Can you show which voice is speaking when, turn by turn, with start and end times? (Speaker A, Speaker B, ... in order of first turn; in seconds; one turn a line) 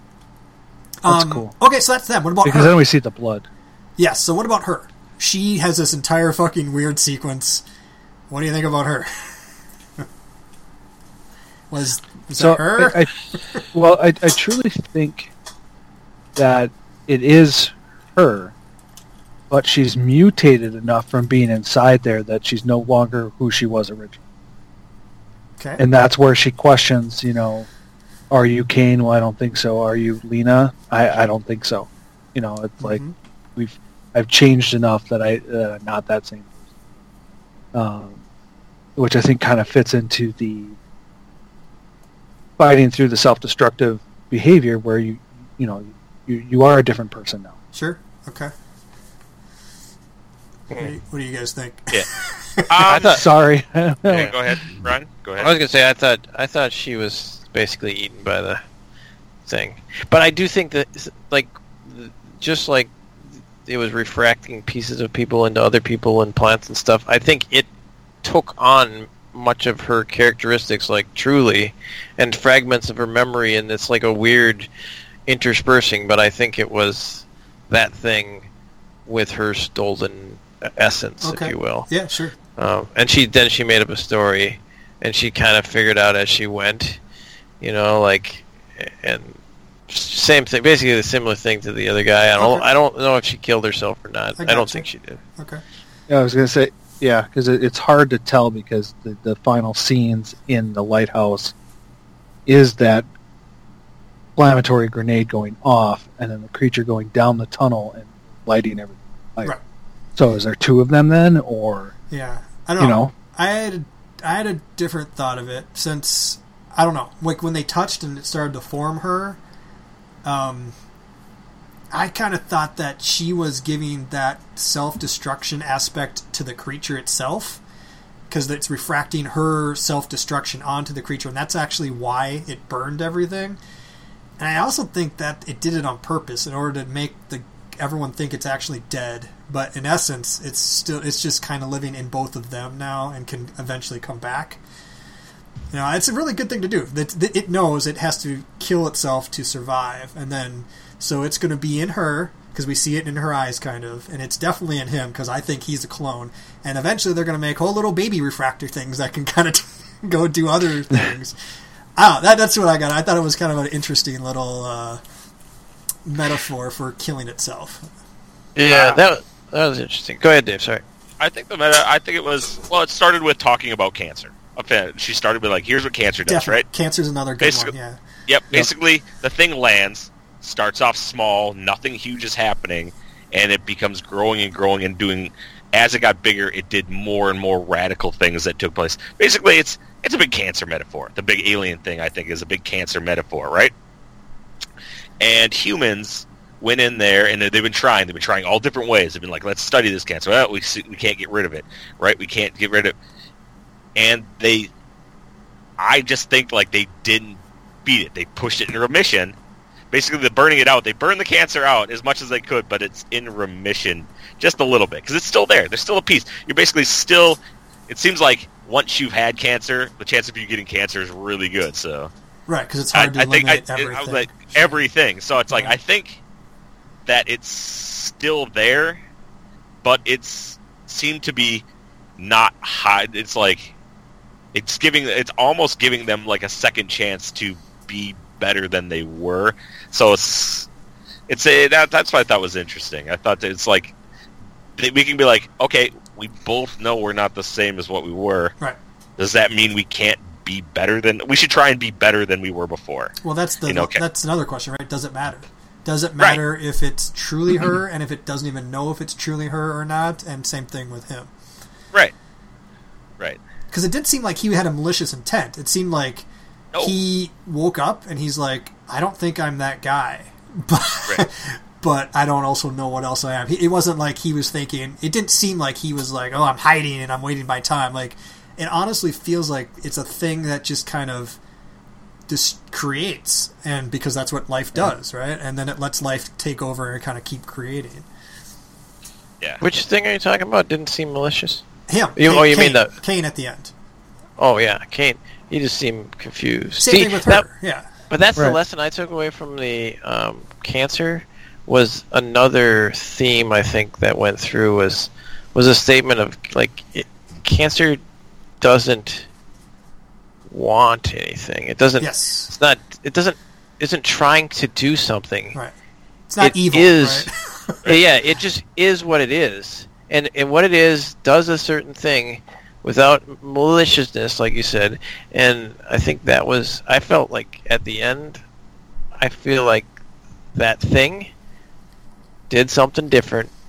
Speaker A: 1.0-2.7
Speaker B: 1.1-1.5
Speaker B: 2.4-3.5
Speaker A: 4.0-7.6
Speaker A: 8.3-9.3
Speaker A: 11.7-13.0
Speaker B: 12.3-13.1
Speaker B: 13.7-15.3
Speaker B: 16.4-18.5
Speaker B: 19.5-24.2
Speaker A: 25.6-25.8
Speaker B: 25.8-27.7
Speaker B: 28.3-33.0
Speaker A: 32.8-33.1
Speaker B: 33.5-36.5
Speaker B: 37.7-38.2
Speaker B: 39.0-40.8
Speaker B: 42.6-47.5
Speaker A: 47.7-48.5
Speaker A: 50.7-53.0
Speaker C: 52.7-53.2
Speaker B: 52.9-54.6
Speaker D: 52.9-53.2
Speaker C: 54.1-55.5
Speaker D: 55.4-58.6
Speaker D: 59.5-62.9
Speaker D: 63.6-67.7
Speaker D: 68.2-74.7
Speaker D: 75.3-78.5
Speaker D: 79.0-81.9
Speaker A: 81.2-82.3
Speaker D: 82.6-87.0
Speaker D: 87.6-89.4
Speaker D: 89.9-95.2
Speaker A: 92.4-92.7
Speaker A: 94.4-94.9
Speaker A: 95.4-95.6
Speaker B: 96.1-101.5
Speaker B: 102.5-103.0
Speaker B: 104.3-109.5
Speaker B: 110.2-111.9
Speaker A: 112.1-119.4
Speaker B: 112.8-113.1
Speaker A: 120.2-120.7
Speaker A: 121.9-127.6
Speaker A: 128.3-133.6
Speaker A: 134.4-144.6
Speaker A: 145.7-161.3
Speaker A: 161.9-165.0
Speaker A: 166.1-167.9
Speaker D: 168.6-170.8
Speaker A: 168.7-169.0
Speaker C: 171.2-176.6
Speaker A: 176.3-178.0
Speaker C: 177.4-177.7
Speaker C: 178.3-193.7
Speaker C: 195.2-202.9
Speaker C: 203.9-204.7
Speaker C: 205.8-209.3
Speaker C: 209.9-222.1
Speaker A: 222.5-224.5
Speaker C: 222.9-226.2
Speaker C: 227.1-229.0
Speaker C: 229.8-231.6
Speaker C: 232.2-233.7
Speaker C: 234.5-240.7
Speaker C: 241.3-243.9
Speaker C: 244.8-248.5
Speaker C: 249.2-253.1
Speaker A: 253.2-261.3
Speaker C: 253.7-254.0
Speaker A: 263.7-266.3
Speaker A: 266.8-281.4
Speaker A: 282.3-288.1
Speaker D: 289.6-291.6
Speaker A: 291.9-293.7
Speaker D: 292.2-292.9
Speaker D: 294.4-297.5
Speaker A: 296.8-297.9
Speaker D: 298.1-308.0
Speaker D: 308.6-309.3
Speaker D: 310.5-315.6
Speaker A: 312.0-312.5
Speaker A: 316.3-317.8
Speaker D: 316.4-317.3
Speaker D: 317.9-328.4
Speaker D: 329.2-329.9
Speaker D: 330.5-331.3
Speaker D: 332.5-333.5